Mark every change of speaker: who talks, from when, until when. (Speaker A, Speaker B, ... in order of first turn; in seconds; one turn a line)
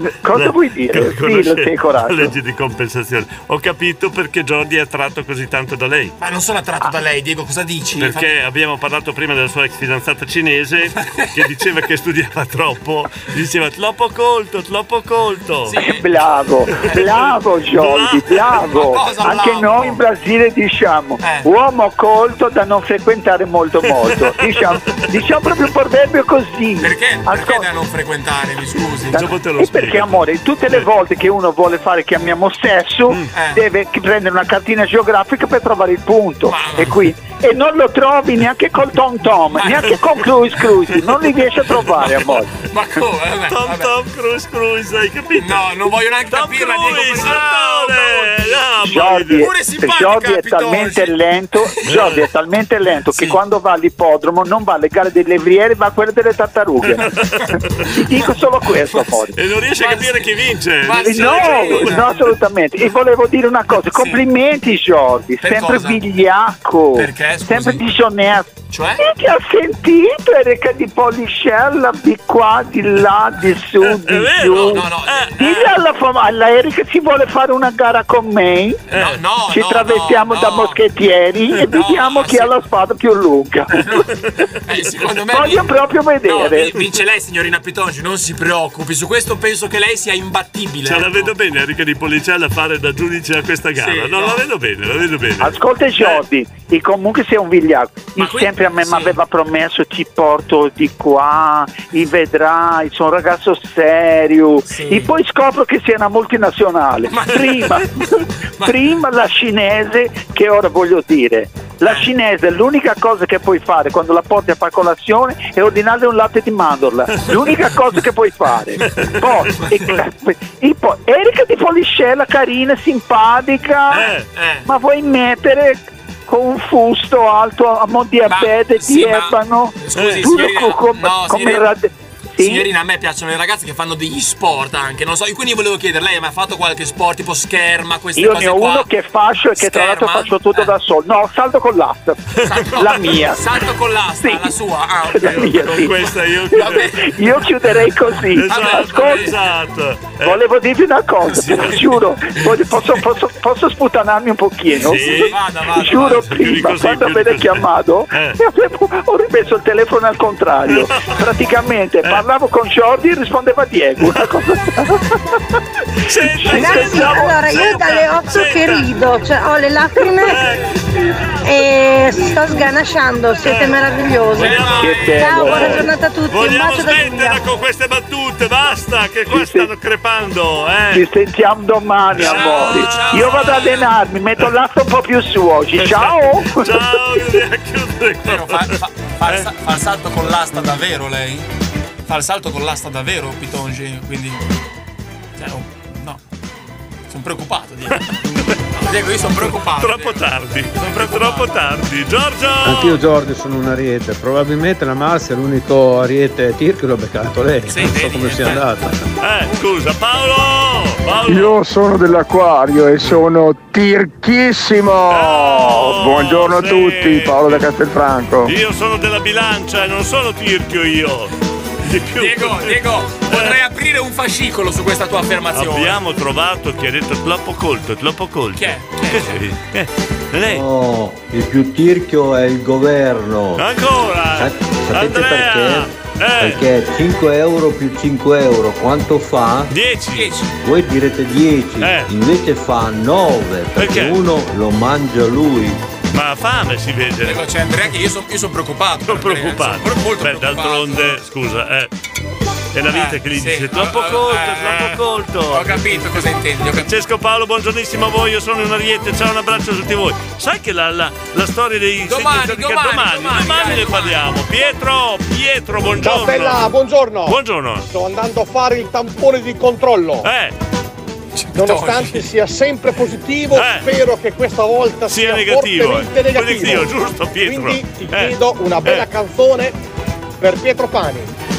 Speaker A: 0.2-2.3
Speaker B: 0.3-6.1
Speaker C: 6.2-8.3
Speaker B: 8.0-15.8
Speaker C: 11.0-11.4
Speaker C: 15.7-16.0
Speaker A: 15.8-27.6
Speaker B: 16.9-17.2
Speaker B: 17.7-18.6
Speaker C: 18.6-20.0
Speaker C: 21.2-21.5
Speaker B: 24.0-25.0
Speaker C: 26.8-29.2
Speaker B: 29.1-30.2
Speaker A: 29.6-42.5
Speaker C: 33.3-33.6
Speaker C: 36.5-36.9
Speaker C: 39.5-39.9
Speaker C: 42.6-43.9
Speaker B: 43.5-45.6
Speaker C: 45.4-48.5
Speaker B: 46.3-49.5
Speaker A: 48.9-57.1
Speaker C: 49.4-51.1
Speaker C: 51.6-52.1
Speaker B: 51.9-52.2
Speaker B: 57.0-57.5
Speaker A: 57.9-59.4
Speaker B: 59.3-62.0
Speaker C: 59.8-60.3
Speaker C: 60.9-62.1
Speaker A: 61.0-68.5
Speaker C: 63.9-64.2
Speaker C: 65.4-66.0
Speaker C: 67.0-67.8
Speaker C: 68.7-69.0
Speaker A: 69.0-74.8
Speaker B: 74.0-75.8
Speaker C: 74.6-75.5
Speaker A: 75.4-78.8
Speaker C: 78.9-80.8
Speaker B: 78.9-79.2
Speaker A: 79.5-83.7
Speaker C: 81.7-82.5
Speaker C: 83.7-84.1
Speaker C: 84.7-85.7
Speaker A: 85.3-86.8
Speaker C: 86.2-91.3
Speaker B: 90.8-95.6
Speaker C: 93.8-94.4
Speaker A: 95.4-108.0
Speaker C: 98.2-99.1
Speaker C: 104.7-105.1
Speaker C: 107.1-108.1
Speaker A: 108.6-124.1
Speaker B: 123.9-124.2
Speaker C: 124.3-124.6
Speaker A: 124.7-132.7
Speaker C: 128.2-131.7
Speaker B: 129.9-130.3
Speaker C: 132.4-138.9
Speaker A: 138.2-142.2
Speaker C: 139.6-140.7
Speaker C: 142.4-145.9
Speaker A: 142.8-143.4
Speaker A: 145.2-145.9
Speaker B: 145.2-146.9
Speaker C: 146.5-147.1
Speaker A: 147.0-149.2
Speaker B: 148.3-150.4
Speaker C: 148.4-149.3
Speaker A: 150.2-165.0
Speaker C: 151.3-152.4
Speaker B: 154.7-155.4
Speaker C: 154.9-156.3
Speaker B: 156.0-158.4
Speaker B: 166.0-168.9
Speaker A: 166.3-167.3
Speaker D: 166.5-170.4
Speaker B: 170.0-170.7
Speaker D: 171.4-177.4
Speaker B: 173.4-174.5
Speaker C: 174.3-175.7
Speaker A: 174.8-175.8
Speaker B: 175.4-181.0
Speaker A: 179.3-179.7
Speaker A: 180.9-186.8
Speaker B: 182.2-183.1
Speaker C: 182.2-183.9
Speaker B: 185.8-188.7
Speaker C: 188.2-191.4
Speaker C: 192.1-194.4
Speaker C: 195.4-196.2
Speaker C: 197.1-198.1
Speaker B: 197.9-198.5
Speaker C: 198.7-201.5
Speaker B: 199.4-203.0
Speaker E: 202.6-208.9
Speaker C: 207.7-208.6
Speaker B: 209.2-211.6
Speaker F: 211.3-211.7
Speaker F: 212.5-213.7
Speaker F: 214.9-218.5
Speaker B: 215.1-217.7
Speaker B: 218.4-222.8
Speaker C: 222.2-226.0
Speaker B: 223.3-223.6
Speaker B: 225.5-230.6
Speaker C: 228.6-229.3
Speaker G: 230.4-233.7
Speaker B: 233.6-236.6
Speaker G: 234.3-235.9
Speaker G: 236.4-239.7
Speaker B: 239.7-240.3
Speaker C: 240.1-240.5
Speaker G: 240.6-245.8
Speaker B: 241.8-242.1
Speaker B: 243.8-244.2
Speaker B: 246.1-247.4
Speaker C: 247.2-251.1
Speaker B: 249.1-251.9
Speaker B: 252.7-255.9
Speaker C: 252.9-255.0
Speaker C: 255.5-256.9
Speaker B: 256.7-266.6
Speaker C: 262.0-264.2
Speaker H: 266.0-267.4
Speaker B: 267.2-267.9
Speaker H: 267.9-270.2
Speaker B: 270.2-270.6
Speaker C: 271.4-272.3
Speaker H: 271.5-276.9
Speaker B: 273.5-273.9
Speaker B: 275.1-279.1
Speaker H: 277.4-279.7
Speaker H: 280.4-281.3